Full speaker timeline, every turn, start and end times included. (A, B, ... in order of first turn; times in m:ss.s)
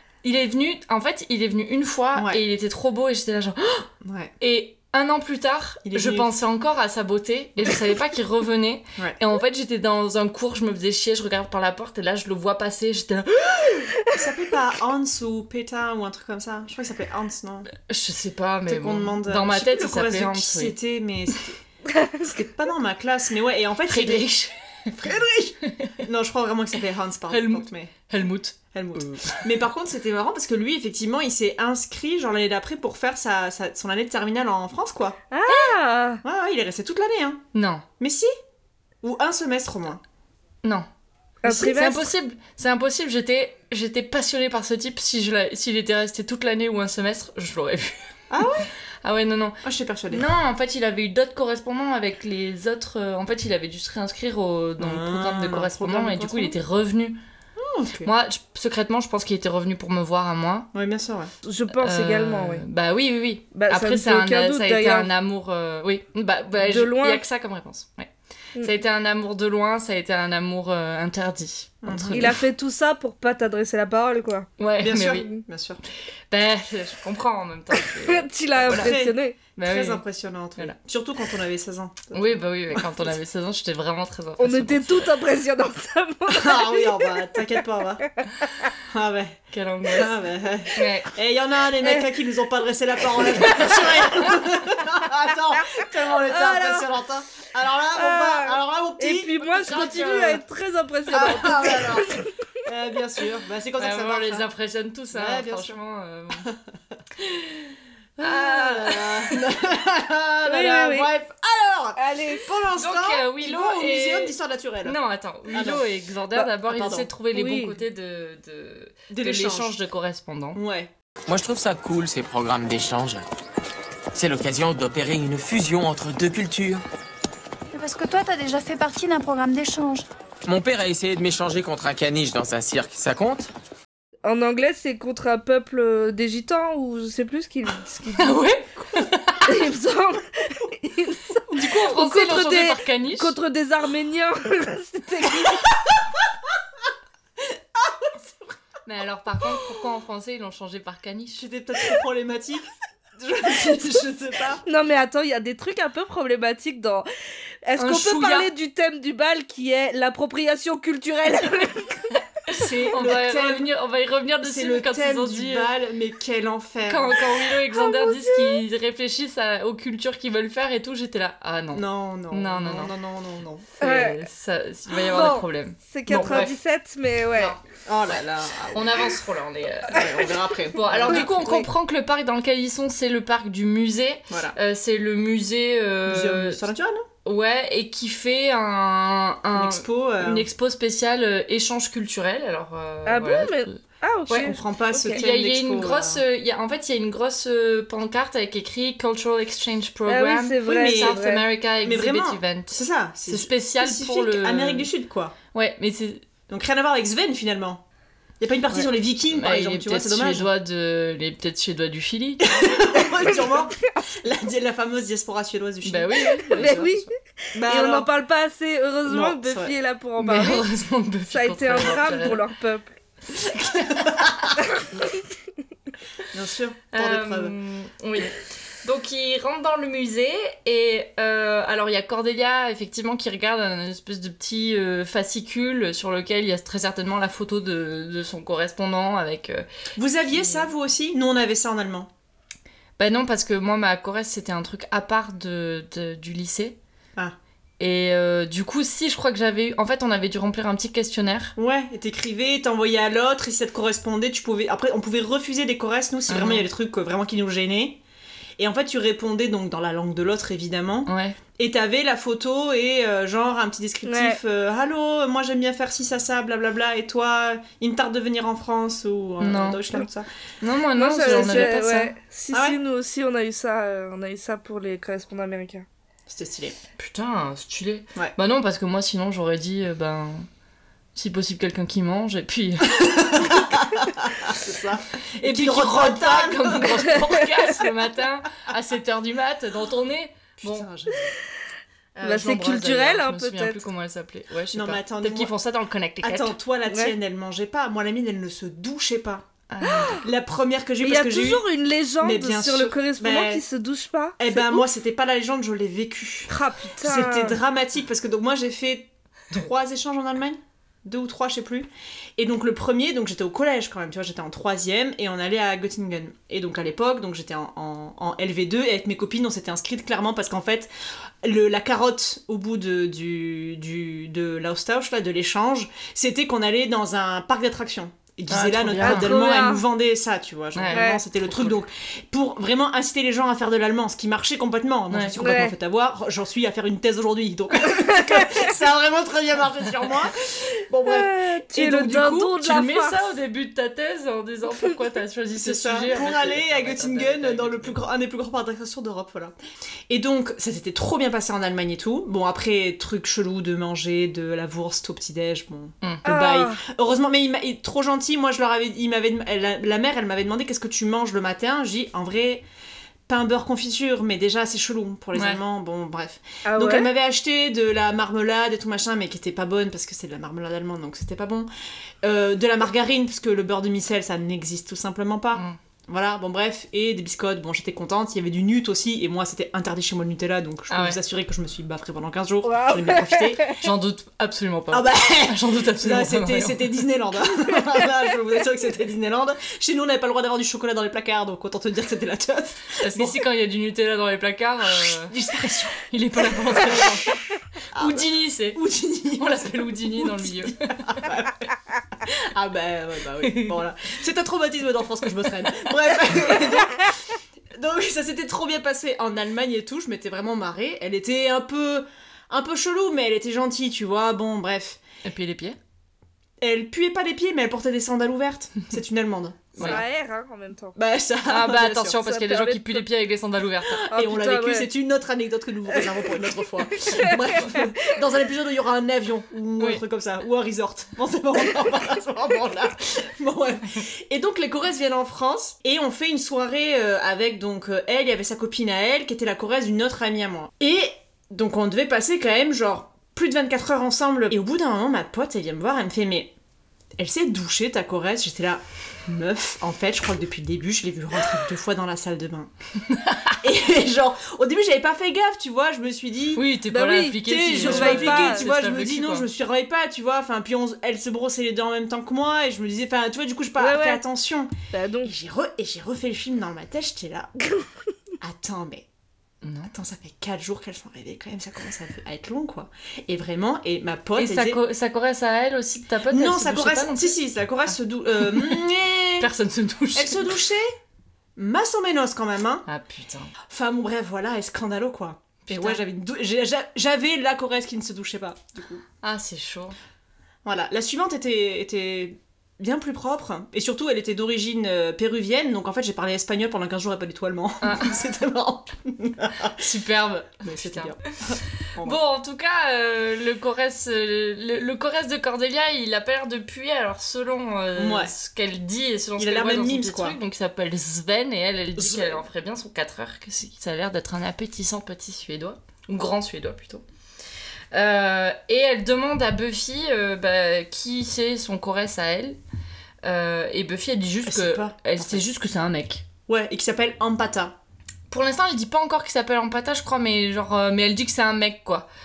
0:00.2-0:03.9 A
0:02.1-0:02.4 B
0:04.0-0:04.3 B
0:04.4-0:13.9 A
0:05.8-0:06.3 B
0:14.1-0:17.7 B
0:17.7-0:20.8 A
0:18.6-0:21.6 B
0:22.0-0:22.2 C
0:22.2-0:24.3 B
0:23.9-0:26.0 A
0:24.9-0:27.9 B
0:27.3-0:29.5 A
0:28.7-0:35.2 B
0:35.3-0:36.2 C
0:36.2-0:37.4 B
0:37.5-0:37.8 A
0:38.0-0:38.3 B
0:39.0-0:40.0 B
0:41.4-0:42.1 C
0:41.4-0:47.9 A
0:48.3-0:48.7 B
0:49.0-0:57.2 A
0:49.6-0:50.2 B
0:54.8-0:56.6 B
0:57.6-0:58.1 B
0:58.0-1:00.7 A
1:00.7-1:01.3 B
1:01.4-1:02.6 C
1:01.7-1:12.4 A
1:03.5-1:05.1 C
1:06.6-1:07.2 C
1:11.8-1:12.4 B
1:12.1-1:14.5 C
1:14.6-1:15.3 A
1:14.8-1:15.8 B
1:16.3-1:19.0 A
1:17.8-1:19.3 C
1:18.6-1:23.1 B
1:19.6-1:20.0 A
1:22.1-1:25.1 A
1:24.4-1:27.2 C
1:26.3-1:28.0 B
1:28.8-1:40.4 B
1:29.5-1:31.1 A
1:35.7-1:36.9 C
1:37.9-1:42.3 C
1:41.1-1:44.5 B
1:43.8-1:46.5 A
1:45.1-1:45.8 B
1:48.2-1:55.0 B
1:48.2-1:49.4 A
1:50.4-1:51.1 C
1:52.0-1:52.4 C
1:52.7-2:00.6 A
1:55.5-1:55.8 B
1:56.4-1:57.1 B
1:57.3-1:57.8 C
1:59.1-1:59.8 B
2:00.5-2:00.9 B
2:01.3-2:03.2 D
2:04.1-2:06.8 D
2:07.7-2:10.0 E
2:10.4-2:13.5 D
2:14.2-2:18.4 C
2:18.1-2:19.6 A
2:19.4-2:25.7 C
2:21.5-2:23.4 A
2:27.8-2:28.1 B
2:28.8-2:31.5 A
2:31.4-2:34.6 B
2:34.6-2:37.0 C
2:37.6-2:42.0 C
2:37.8-2:38.5 A
2:42.5-2:45.7 A
2:42.5-2:43.7 B
2:44.4-2:47.2 B
2:46.8-2:52.9 A
2:47.8-2:48.6 C
2:51.7-2:53.8 B
2:53.8-2:54.2 C
2:53.8-2:56.5 A
2:55.0-2:57.5 C
2:57.3-2:58.2 A
2:57.8-2:59.2 B
2:58.7-3:00.1 A
2:59.9-3:01.6 B
3:00.7-3:06.6 A
3:01.1-3:01.6 C
3:04.3-3:04.6 B
3:06.0-3:07.1 B
3:07.2-3:14.5 A
3:09.5-3:10.5 B
3:13.0-3:15.2 C
3:14.3-3:16.2 B
3:15.1-3:24.9 A
3:20.1-3:21.4 C
3:20.6-3:21.2 B
3:21.8-3:25.3 B
3:25.5-3:26.2 A
3:26.5-3:27.8 B
3:28.4-3:30.5 B
3:29.3-3:32.7 A
3:32.4-3:36.9 B
3:35.8-3:37.0 A
3:36.5-3:40.6 C
3:37.5-3:38.1 B
3:39.0-3:39.7 B
3:40.2-3:42.4 A
3:41.3-3:42.9 C
3:43.3-3:44.6 A
3:46.3-3:47.5 B
3:46.9-3:59.6 A
4:00.0-4:02.1 B
4:00.3-4:00.7 A
4:03.0-4:06.8 A
4:07.8-4:11.5 A
4:11.6-4:18.0 B
4:16.3-4:16.7 A
4:18.6-4:30.3 B
4:21.0-4:21.4 A
4:24.0-4:24.4 C
4:29.4-4:30.0 A
4:30.6-4:32.1 A
4:30.9-4:35.8 C
4:31.2-4:31.7 B
4:32.5-4:32.8 B
4:36.3-4:36.8 B
4:37.0-4:40.4 A
4:41.1-4:43.7 A
4:43.0-4:47.4 B
4:45.4-4:50.9 A
4:50.6-4:51.3 B
4:52.2-4:56.6 A
4:52.2-4:53.8 C
4:54.7-4:55.5 B
4:56.2-4:59.4 B
4:56.9-4:57.1 C
4:59.7-5:00.2 A
4:59.9-5:00.2 C
5:00.2-5:01.6 B
5:01.0-5:04.8 C
5:02.2-5:03.6 B
5:04.4-5:20.9 B
5:06.5-5:07.6 C
5:21.4-5:42.3 B
5:28.5-5:29.4 A
5:29.0-5:29.8 C
5:30.7-5:31.8 A
5:30.9-5:31.2 C
5:35.1-5:35.4 A
5:35.4-5:35.7 C
5:38.0-5:38.6 C
5:41.0-5:43.2 C
5:41.8-5:48.0 A
5:45.5-5:49.6 B
5:50.1-6:02.6 B
5:56.2-5:56.8 C
6:03.3-6:11.7 B
6:05.3-6:05.6 A
6:06.6-6:07.1 C
6:12.2-6:23.8 B
6:20.9-6:21.2 A
6:22.6-6:23.7 C
6:23.8-6:27.0 A
6:24.9-6:33.4 B
6:33.0-6:35.4 A
6:35.0-6:37.3 B
6:36.0-6:37.4 A
6:37.9-6:41.7 B
6:38.0-6:38.8 A
6:39.3-6:41.1 A
6:42.2-6:47.2 B
6:43.4-6:43.8 A
6:47.7-6:55.0 B
6:55.2-6:55.8 A
6:56.6-7:00.0 B
6:59.8-7:01.0 C
7:00.9-7:02.2 B
7:01.4-7:04.1 A
7:02.2-7:03.0 C
7:03.9-7:26.5 B
7:04.1-7:04.9 C
7:07.1-7:07.8 C
7:27.2-7:32.7 B
7:33.1-7:33.5 A
7:33.6-7:36.6 B
7:36.5-7:39.5 A
7:36.9-7:38.6 C
7:37.4-7:44.7 B
7:43.8-7:44.2 C
7:44.9-7:45.3 C
7:45.2-7:47.5 B
7:48.4-7:49.0 B
7:49.6-7:49.9 A
7:49.9-7:54.8 B
7:54.4-7:57.4 A
7:56.3-7:59.5 B
7:58.5-7:58.8 A
7:59.4-8:00.6 A
8:00.1-8:00.9 B
8:01.6-8:02.8 B
8:02.9-8:03.5 A
8:03.7-8:09.0 B
8:05.6-8:06.0 A
8:09.2-8:10.0 A
8:10.6-8:19.9 B
8:17.8-8:18.2 A
8:19.8-8:37.0 A
8:20.6-8:22.2 B
8:27.9-8:28.3 B
8:29.4-8:30.4 B
8:32.0-8:32.4 B
8:37.9-8:42.6 A
8:43.2-8:46.2 A
8:44.4-8:45.5 B
8:46.5-8:47.8 B
8:48.3-8:52.1 A